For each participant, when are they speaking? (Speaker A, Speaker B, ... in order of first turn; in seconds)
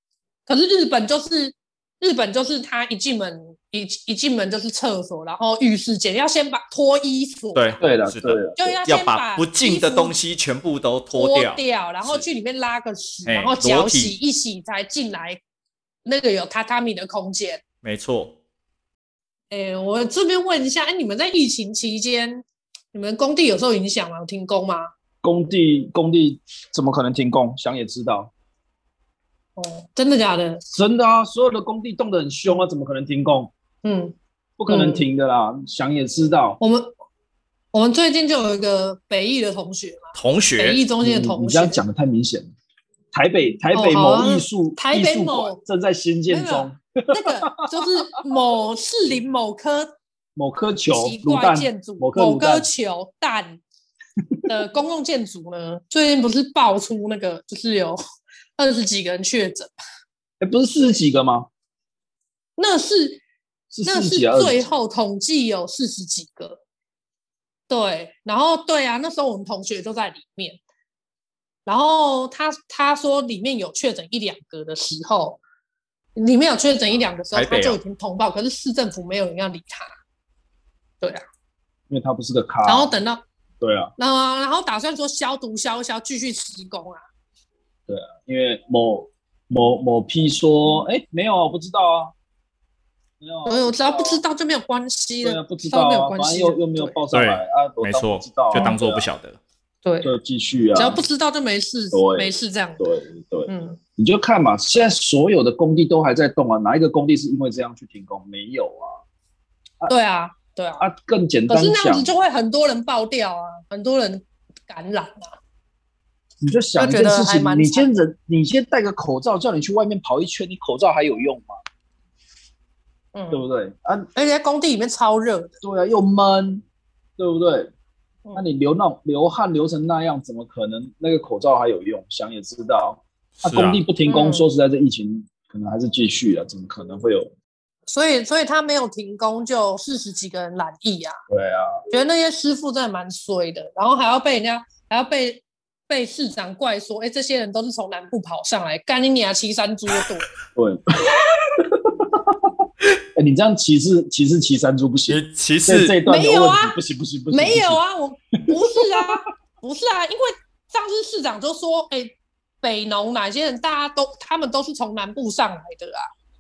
Speaker A: 0.5-7.8, 8.6-10.2, 11.1-15.4, 16.1-17.6, 19.5-24.9, 29.6-30.6, 33.8-34.2, 34.7-35.0, 36.6-36.9, 37.7-41.8, 43.7-45.6, 46.3-49.9, 50.9-53.6, 54.5-58.0, 58.6-59.7, 62.6-63.2, 63.9-66.6, 67.7-70.6, 71.7-75.4, 76.2-79.9, 82.6-83.2, 84.0-87.0, 93.5-97.0, 98.5-98.8, 99.8-100.2, 100.8-102.9, 103.5-103.8, 109.9-110.8, 111.5-115.4, 116.8-117.9, 123.2-123.4, 124.2-125.6, 134.1-134.5, 137.9-141.2, 141.9-150.3, 156.1-156.8, 157.3-166.1
Speaker B: 7.5-12.2, 13.3-14.2, 17.8-18.4, 40.1-40.8, 77.3-77.8, 97.1-99.4, 133.4-133.8, 155.1-156.0
Speaker C: 7.8-8.8, 25.2-28.3, 30.7-33.5, 34.6-36.6, 41.0-42.5, 43.1-47.9, 50.4-52.7, 60.4-61.5, 63.7-64.7, 81.9-83.0, 83.6-83.9, 87.9-92.1, 93.2-94.2, 95.2-99.1, 100.0-101.0, 101.9-109.0, 110.8-112.1, 116.4-121.6, 123.3-124.1, 125.6-126.6, 127.2-127.7, 128.3-137.3, 141.3-141.8, 150.5-152.5, 153.2-157.8, 158.8-159.1